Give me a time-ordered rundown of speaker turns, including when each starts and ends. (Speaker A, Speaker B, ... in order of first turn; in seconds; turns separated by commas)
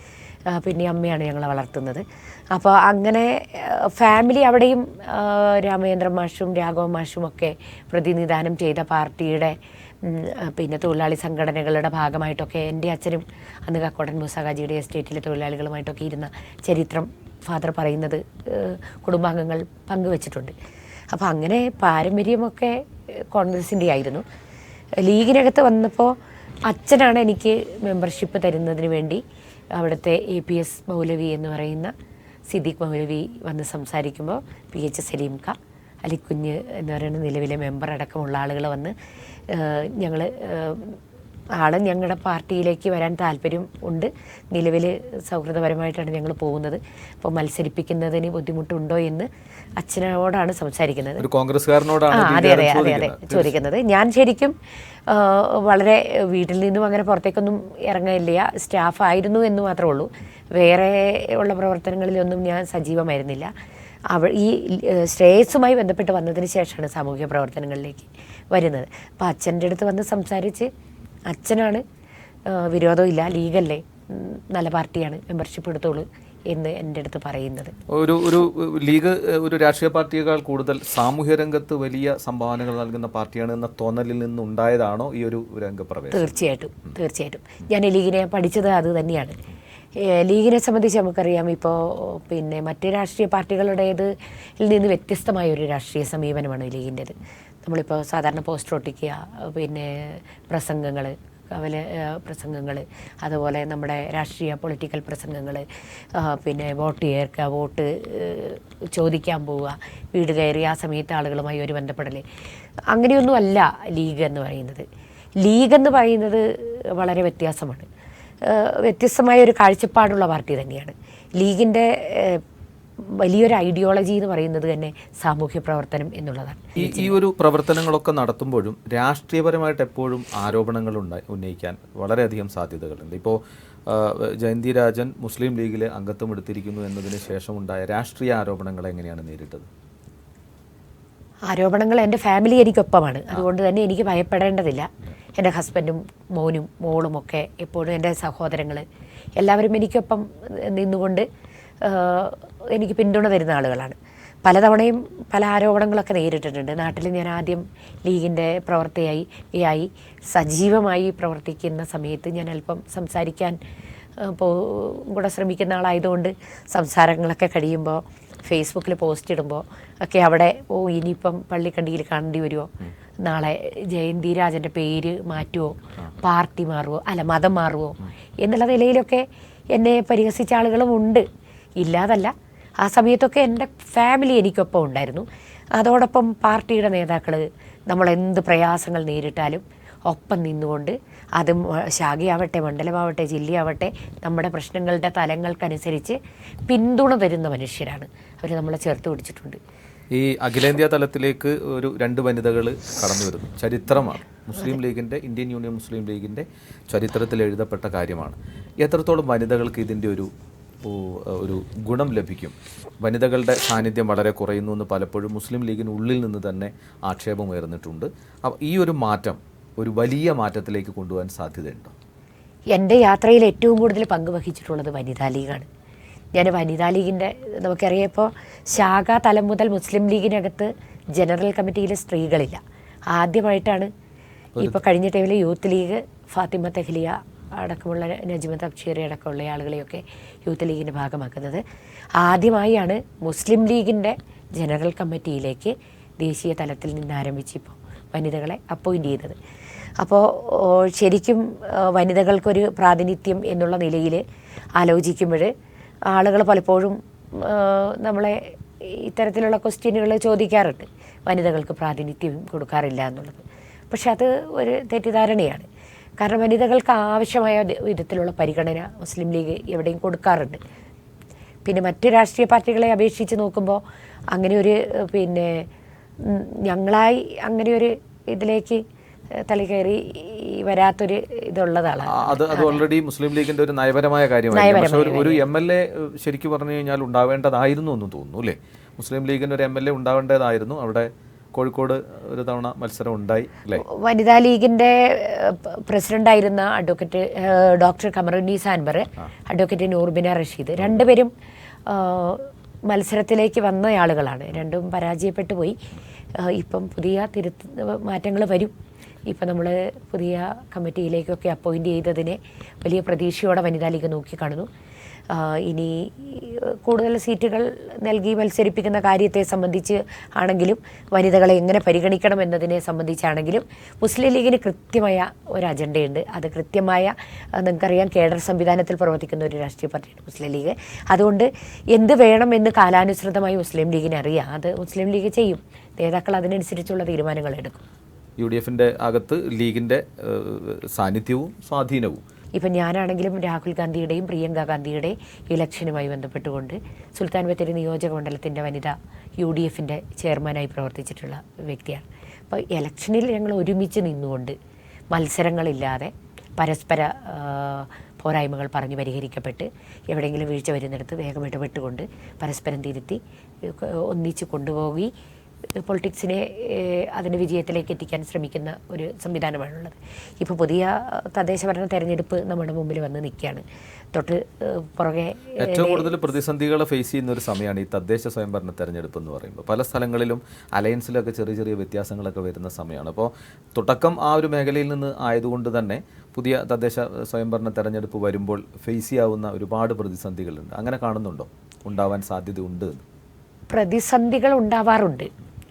Speaker A: 0.5-20.5, Speaker A: 21.1-24.2, Speaker A: 25.0-31.9, Speaker A: 32.5-39.0, Speaker A: 39.5-41.0, Speaker A: 41.6-51.2, Speaker B: 51.2-53.5, Speaker A: 52.1-54.6, Speaker A: 55.1-63.5, Speaker A: 64.1-70.7, Speaker A: 71.3-71.8, Speaker A: 72.5-77.8, Speaker B: 77.9-86.3, Speaker A: 86.1-89.4, Speaker A: 90.0-112.2, Speaker A: 112.9-114.8, Speaker A: 115.4-117.9, Speaker A: 118.4-122.4, Speaker A: 123.0-127.1, Speaker B: 126.8-139.7, Speaker A: 141.5-148.8, Speaker A: 149.4-151.3, Speaker A: 151.8-163.6, Speaker A: 164.2-181.2, Speaker A: 181.8-199.6, Speaker B: 200.1-210.3, Speaker B: 210.8-221.9, Speaker A: 222.7-225.7, Speaker A: 226.3-233.9, Speaker B: 234.6-234.8, Speaker A: 234.6-241.6, Speaker A: 242.2-249.4, Speaker A: 250.0-254.2, Speaker A: 254.8-255.5, Speaker A: 256.1-265.7, Speaker A: 266.2-270.6, Speaker A: 271.6-275.7, Speaker A: 276.2-278.8, Speaker A: 279.4-282.8, Speaker B: 282.1-293.8, Speaker A: 284.5-285.4, Speaker A: 293.8-301.3, Speaker A: 301.9-305.8, Speaker A: 306.4-308.7, Speaker A: 309.3-314.7, Speaker A: 315.3-337.8, Speaker B: 338.4-342.2, Speaker A: 342.6-354.6, Speaker A: 355.1-365.1, Speaker A: 365.8-376.1, Speaker B: 375.6-393.0, Speaker A: 393.7-395.3